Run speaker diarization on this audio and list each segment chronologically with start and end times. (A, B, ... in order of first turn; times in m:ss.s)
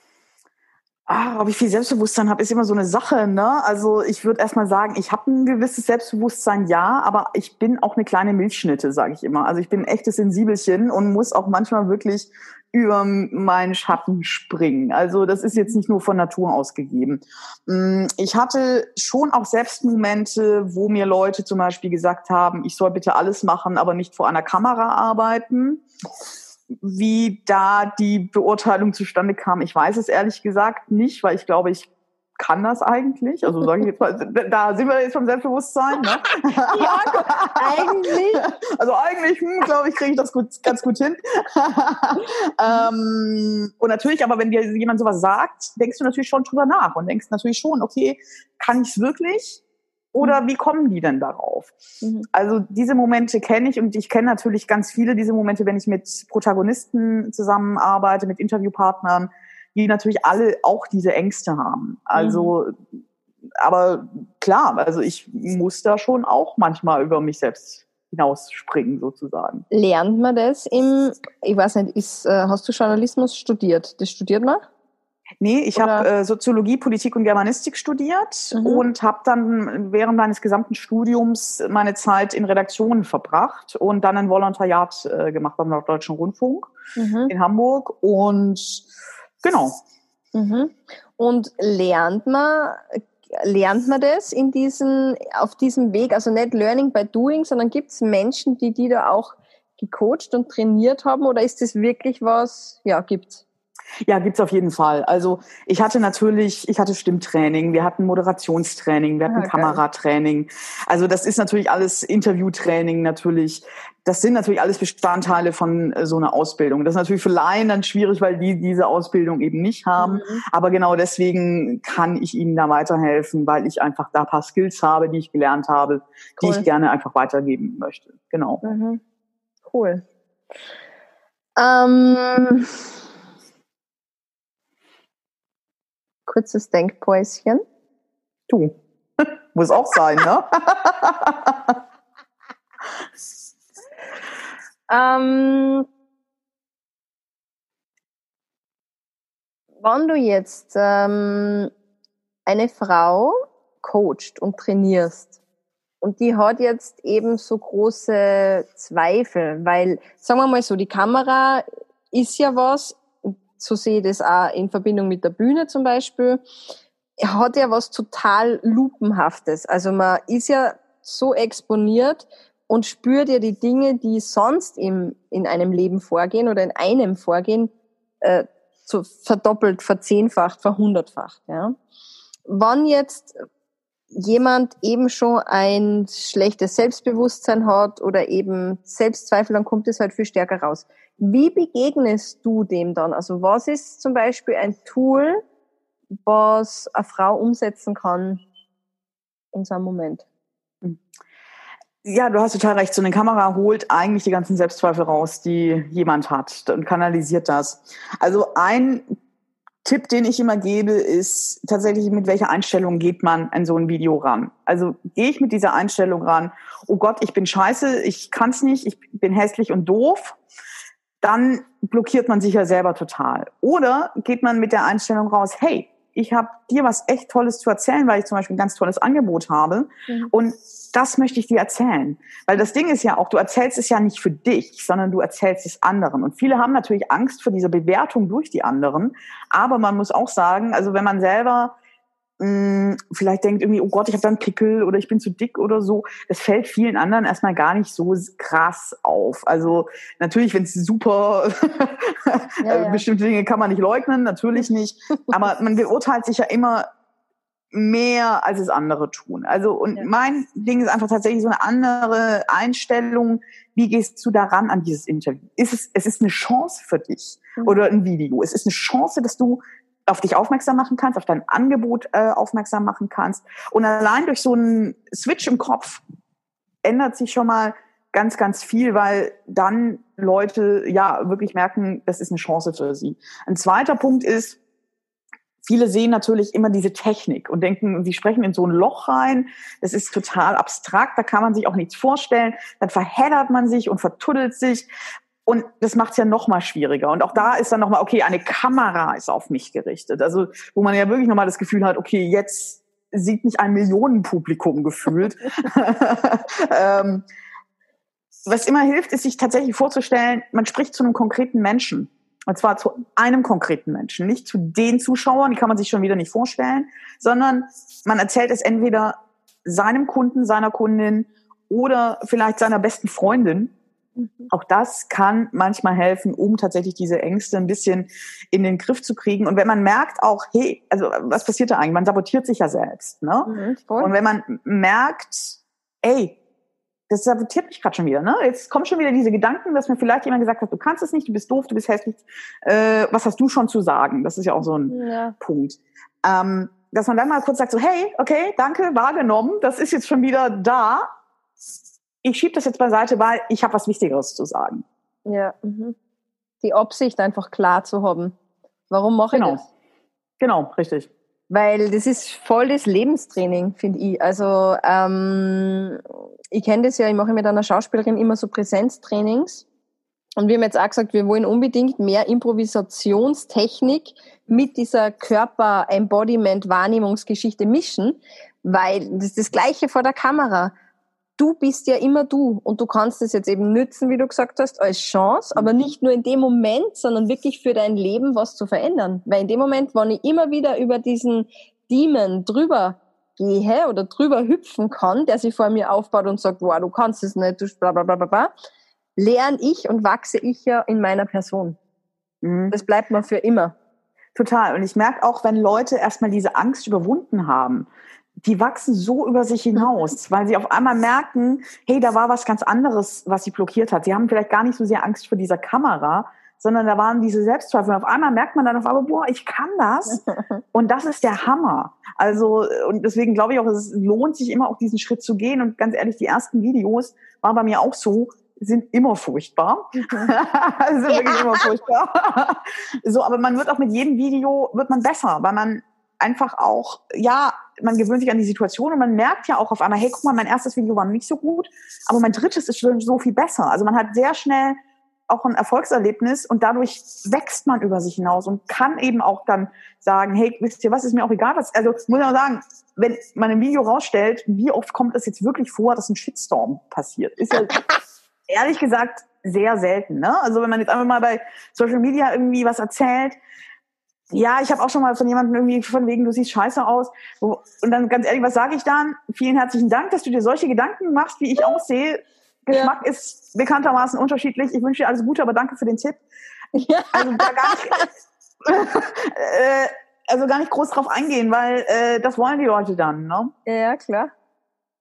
0:01.1-0:25.8 A
0:26.8-0:49.6 A
0:36.6-0:38.5 B
0:50.1-0:51.7 A
0:52.0-0:52.3 B
0:52.3-1:02.8 A
1:02.1-1:02.5 B
1:03.6-1:09.6 A
1:09.7-1:14.6 B
1:15.4-1:26.7 A
1:15.7-1:16.1 B
1:18.5-1:18.9 B
1:27.0-1:27.3 B
1:27.3-1:28.8 A
1:29.4-1:29.8 A
1:30.3-1:43.4 B
1:44.0-2:08.6 A
1:49.3-1:49.8 B
2:00.0-2:00.4 B
2:06.4-2:06.7 B
2:08.6-2:09.0 B
2:09.7-2:10.0 B
2:11.6-2:12.8 B
2:16.2-2:17.6 B
2:18.5-2:21.8 A
2:24.9-2:25.8 B
2:29.8-2:31.7 B
2:32.4-2:35.4 B
2:36.0-2:46.4 B
2:47.2-3:01.7 B
3:02.4-3:03.3 B
3:04.1-3:15.4 B
3:16.2-3:18.4 B
3:19.5-3:20.2 B
3:22.0-3:29.0 A
3:29.8-3:40.4 A
3:41.2-4:01.7 A
4:02.4-4:16.9 A
4:12.6-4:13.0 B
4:17.7-4:36.0 A
4:36.8-4:44.6 A
4:45.6-4:54.9 A
4:55.4-5:07.2 A
5:08.5-5:23.7 A
5:24.2-5:24.5 B
5:24.5-5:36.4 A
5:33.4-5:34.1 B
5:37.1-5:51.1 A
5:44.8-5:45.3 B
5:52.2-5:54.8 A
5:55.2-5:56.0 B
5:56.6-5:58.4 B
5:58.9-5:59.6 B
5:59.3-5:59.6 A
6:00.4-6:01.1 A
6:01.5-6:09.6 B
6:10.4-6:20.7 B
6:21.4-6:38.5 B
6:39.2-6:41.8 B
6:42.4-6:42.8 A
6:42.7-6:43.7 B
6:44.3-6:47.9 A
6:48.4-7:00.2 A
7:00.1-7:00.6 B
7:00.7-7:37.7 A
7:10.0-7:10.3 B
7:11.1-7:11.7 B
7:38.5-7:43.4 A
7:44.3-7:56.2 A
7:52.7-7:52.9 B
7:56.7-7:58.1 B
7:57.1-7:58.1 A
7:58.6-8:03.5 A
8:03.6-8:04.3 B